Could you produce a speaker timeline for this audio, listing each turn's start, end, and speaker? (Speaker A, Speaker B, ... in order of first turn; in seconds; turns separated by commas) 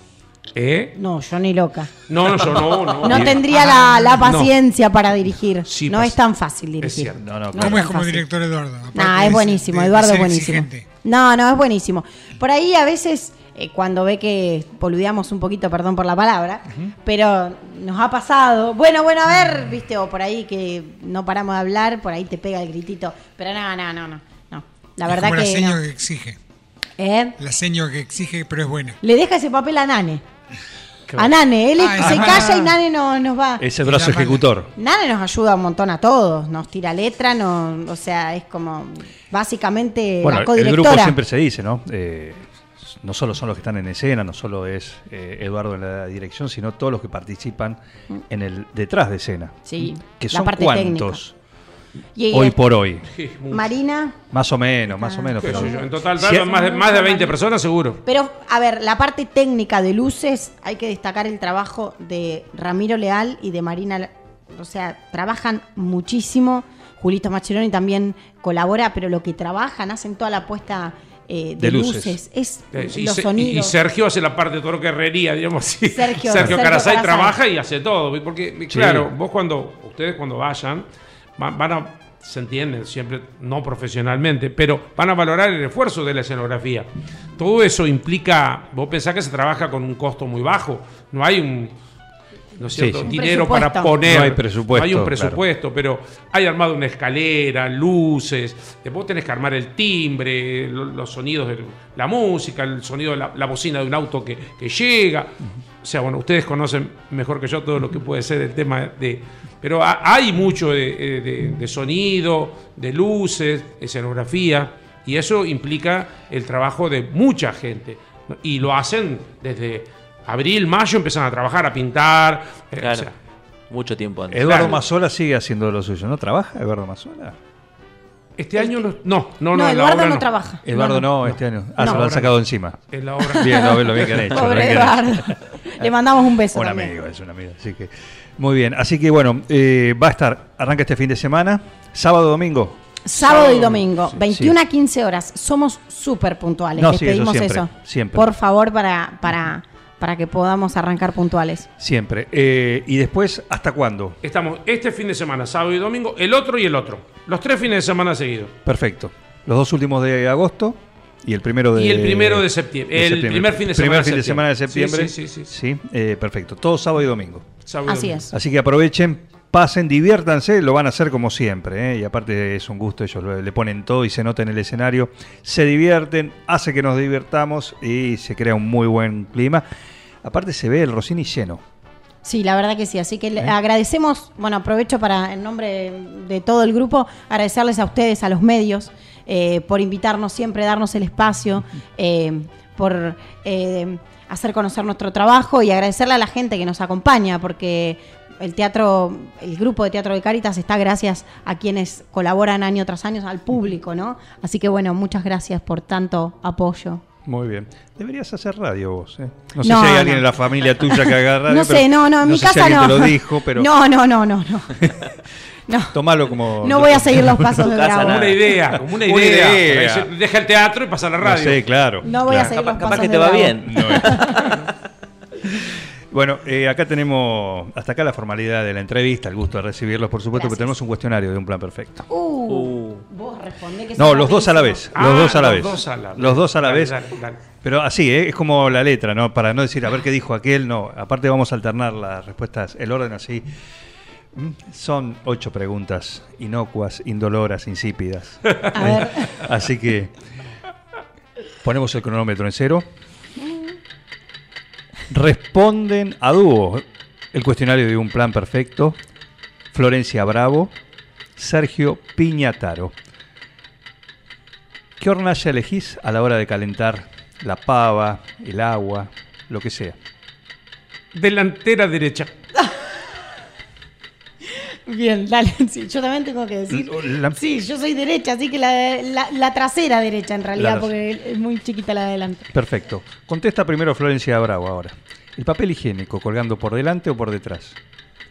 Speaker A: 0.5-0.9, Speaker B: 0.9-1.9, Speaker A: 2.1-4.5, Speaker B: 3.0-8.2, Speaker C: 3.1-3.4, Speaker D: 3.7-4.2, Speaker A: 5.7-6.2, Speaker A: 6.8-7.2, Speaker C: 7.2-7.8, Speaker D: 7.5-10.8, Speaker B: 8.9-25.8, Speaker D: 25.1-26.4, Speaker B: 27.0-27.4, Speaker D: 27.4-29.0, Speaker B: 29.0-30.2, Speaker B: 31.1-33.6, Speaker D: 31.8-32.8, Speaker C: 32.0-32.5, Speaker C: 33.6-34.7, Speaker D: 33.9-34.4, Speaker B: 34.8-41.2, Speaker C: 40.2-47.8, Speaker C: 48.3-51.3, Speaker B: 49.6-51.2, Speaker B: 52.1-52.6, Speaker C: 52.3-53.0, Speaker A: 53.1-53.7, Speaker B: 53.5-54.1, Speaker C: 54.3-56.5, Speaker B: 54.9-57.3, Speaker A: 55.4-58.0, Speaker B: 58.0-73.7, Speaker C: 71.6-72.2, Speaker A: 72.7-80.8, Speaker B: 75.9-77.3, Speaker C: 78.7-79.1, Speaker A: 81.4-91.7, Speaker A: 92.6-123.1, Speaker C: 92.7-93.1, Speaker B: 93.1-93.9, Speaker C: 94.0-95.4, Speaker E: 122.8-123.1, Speaker E: 123.7-124.8, Speaker C: 124.3-127.3, Speaker A: 124.4-124.8, Speaker A: 128.4-130.3, Speaker B: 128.6-128.8, Speaker B: 129.5-131.1, Speaker C: 130.6-132.8, Speaker A: 131.8-132.4, Speaker A: 132.9-134.6, Speaker B: 133.2-136.9, Speaker C: 133.3-135.9, Speaker C: 136.5-142.8, Speaker B: 143.0-151.7, Speaker A: 143.2-143.8, Speaker C: 144.2-144.6, Speaker C: 146.8-148.3, Speaker C: 151.8-154.2, Speaker A: 154.2-158.5, Speaker C: 158.6-167.4, Speaker A: 161.7-165.5, Speaker A: 167.7-168.2, Speaker B: 167.8-168.3, Speaker C: 168.3-179.6, Speaker C: 180.2-181.6, Speaker B: 182.2-207.0, Speaker C: 207.2-213.7, Speaker B: 209.6-210.2, Speaker B: 210.9-214.9, Speaker C: 214.8-215.1, Speaker B: 215.7-215.9, Speaker C: 215.9-217.5, Speaker B: 216.6-218.4, Speaker E: 217.5-218.5, Speaker A: 217.9-221.7, Speaker C: 218.9-220.1, Speaker C: 221.2-222.5, Speaker B: 222.0-224.6, Speaker E: 222.3-224.2, Speaker C: 223.6-224.2, Speaker C: 226.1-232.1, Speaker B: 230.3-230.7, Speaker B: 232.1-234.8, Speaker E: 232.5-233.0, Speaker C: 233.9-237.0, Speaker A: 234.9-237.4, Speaker C: 237.6-243.5, Speaker C: 244.3-250.1, Speaker B: 248.7-249.3, Speaker C: 251.6-252.9, Speaker C: 255.1-259.0, Speaker C: 259.7-260.7, Speaker C: 261.4-262.9, Speaker C: 265.0-270.0, Speaker A: 271.1-272.3, Speaker B: 274.4-282.5, Speaker C: 276.7-277.4, Speaker C: 280.6-280.9, Speaker C: 282.5-287.8